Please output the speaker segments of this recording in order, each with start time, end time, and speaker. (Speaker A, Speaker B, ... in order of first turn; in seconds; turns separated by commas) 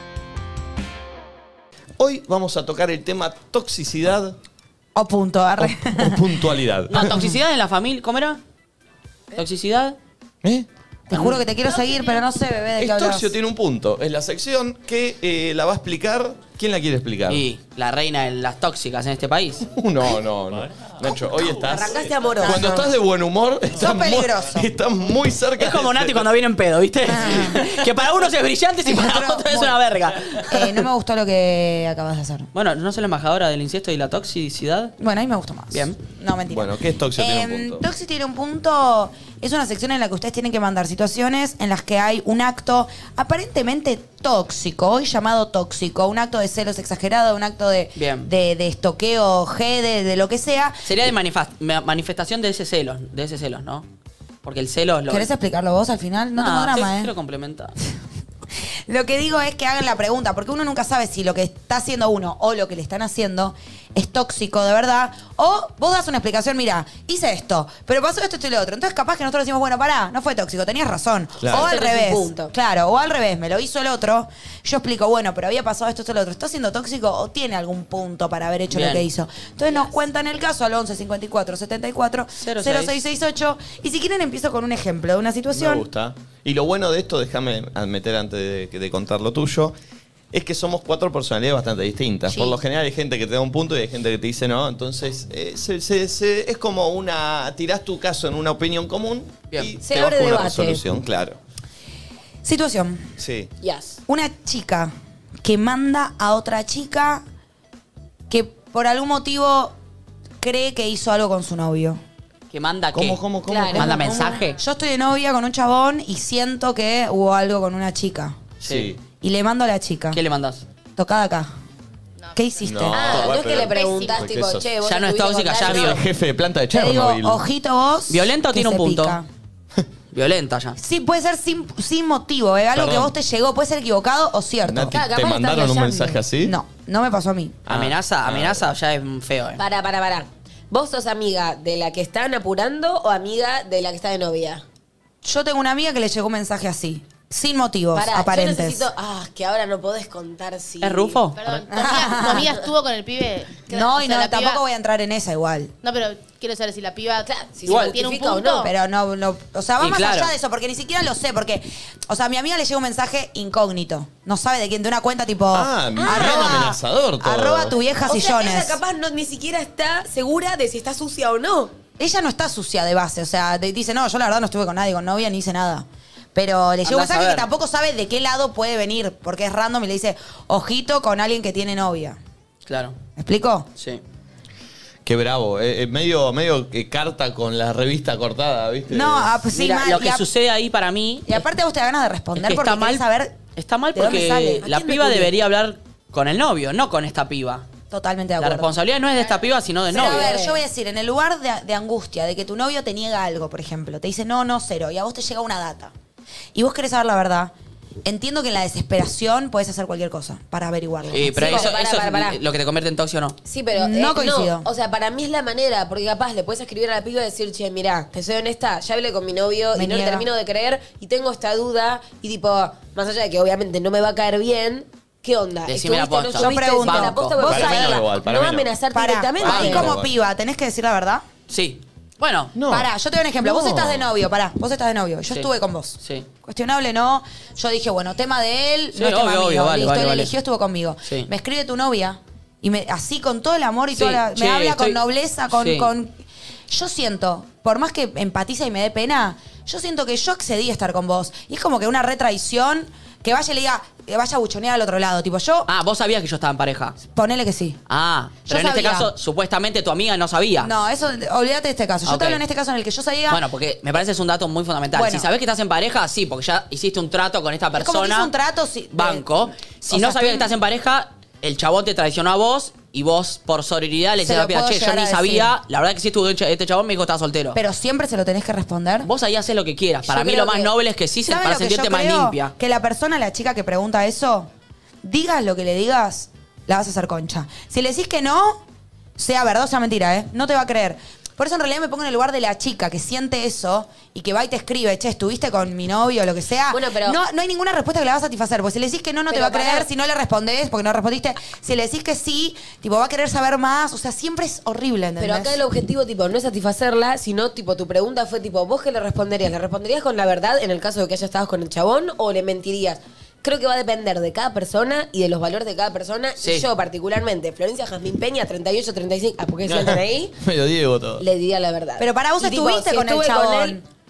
Speaker A: 2.0-4.4, Speaker B: 5.0-6.3, Speaker A: 5.6-7.1, Speaker C: 6.9-8.4, Speaker C: 9.3-10.0, Speaker B: 11.1-13.3, Speaker C: 11.1-11.4, Speaker D: 11.8-12.2, Speaker A: 12.8-17.4, Speaker C: 17.3-19.7, Speaker A: 19.7-26.2, Speaker E: 21.4-22.9, Speaker B: 23.7-24.6, Speaker C: 25.6-30.8, Speaker B: 27.1-27.8, Speaker B: 28.9-29.8, Speaker B: 30.4-32.5, Speaker C: 32.5-34.9, Speaker B: 35.0-50.8, Speaker C: 35.7-36.0, Speaker A: 36.5-37.8, Speaker C: 48.0-48.3, Speaker C: 50.9-53.9, Speaker C: 54.4-55.3, Speaker B: 55.1-57.1, Speaker C: 56.4-57.8, Speaker B: 58.9-85.8, Speaker A: 71.4-71.7, Speaker E: 71.5-72.5, Speaker C: 78.7-79.0, Speaker C: 82.4-83.0, Speaker A: 85.5-89.7, Speaker A: 90.3-101.4, Speaker E: 99.8-100.8, Speaker B: 102.4-103.1, Speaker A: 103.2-103.5, Speaker E: 103.6-104.0, Speaker B: 104.1-107.2, Speaker B: 108.3-109.8, Speaker B: 110.4-112.0, Speaker C: 112.5-113.2, Speaker A: 112.9-114.2, Speaker E: 113.5-114.4, Speaker C: 113.7-114.6, Speaker B: 113.9-118.4, Speaker C: 118.6-118.9, Speaker A: 118.7-119.0, Speaker B: 119.2-120.2, Speaker C: 120.1-120.7, Speaker B: 121.0-121.5, Speaker D: 122.2-124.3, Speaker B: 122.4-123.3, Speaker A: 122.6-124.7, Speaker E: 122.9-126.0, Speaker C: 124.8-126.0, Speaker A: 125.7-127.4, Speaker B: 126.7-129.3, Speaker C: 128.1-129.2, Speaker C: 130.1-130.8, Speaker B: 130.8-135.0, Speaker A: 132.8-133.1, Speaker A: 134.7-136.6, Speaker E: 134.9-136.2, Speaker B: 136.4-137.6, Speaker A: 137.7-138.6, Speaker C: 137.7-139.6, Speaker E: 139.6-144.6, Speaker B: 145.2-148.9, Speaker E: 147.9-151.2, Speaker C: 150.8-151.6, Speaker D: 151.4-154.6, Speaker B: 151.7-152.5, Speaker B: 153.7-155.7, Speaker D: 155.8-158.7, Speaker E: 157.3-158.7, Speaker C: 157.7-157.9, Speaker B: 158.7-168.8, Speaker C: 159.8-160.3, Speaker A: 165.5-167.8, Speaker E: 166.0-166.7, Speaker E: 168.0-171.7, Speaker B: 172.0-182.2, Speaker C: 176.8-177.5, Speaker C: 182.7-183.0, Speaker B: 183.2-183.7, Speaker C: 183.8-184.0, Speaker A: 185.1-189.4, Speaker B: 188.9-190.2, Speaker C: 189.5-191.4, Speaker B: 191.3-193.4, Speaker C: 192.4-193.0, Speaker C: 193.6-197.7, Speaker B: 193.9-194.7, Speaker E: 194.1-195.3, Speaker B: 197.9-198.7, Speaker C: 198.4-200.3, Speaker B: 199.9-205.9, Speaker E: 199.9-200.6, Speaker B: 206.6-207.5, Speaker B: 208.1-211.7, Speaker C: 211.1-213.3, Speaker E: 211.3-212.4, Speaker E: 213.4-229.9, Speaker B: 213.8-214.7, Speaker B: 219.7-220.3, Speaker C: 225.7-227.7, Speaker B: 226.4-228.0, Speaker A: 227.4-228.7, Speaker B: 228.9-231.2, Speaker A: 229.4-230.1, Speaker C: 231.5-232.5, Speaker A: 232.6-232.9, Speaker B: 232.7-255.7, Speaker A: 233.4-234.1, Speaker C: 235.3-236.3, Speaker C: 238.9-240.3, Speaker C: 243.9-245.9, Speaker C: 255.7-257.0, Speaker B: 257.1-257.8, Speaker C: 257.9-260.7, Speaker B: 258.5-259.1, Speaker B: 260.6-263.4, Speaker C: 262.1-262.4, Speaker C: 263.3-268.3, Speaker B: 264.9-265.3, Speaker B: 267.8-270.5, Speaker C: 268.9-277.6, Speaker B: 274.2-275.5, Speaker B: 277.5-279.1, Speaker C: 279.1-282.5, Speaker E: 280.1-280.7, Speaker B: 281.3-284.5, Speaker B: 285.0-288.6, Speaker B: 289.2-305.6, Speaker E: 296.7-297.2, Speaker E: 299.3-299.9, Speaker E: 305.2-320.4, Speaker A: 319.7-321.2, Speaker E: 321.2-323.8, Speaker B: 322.0-323.9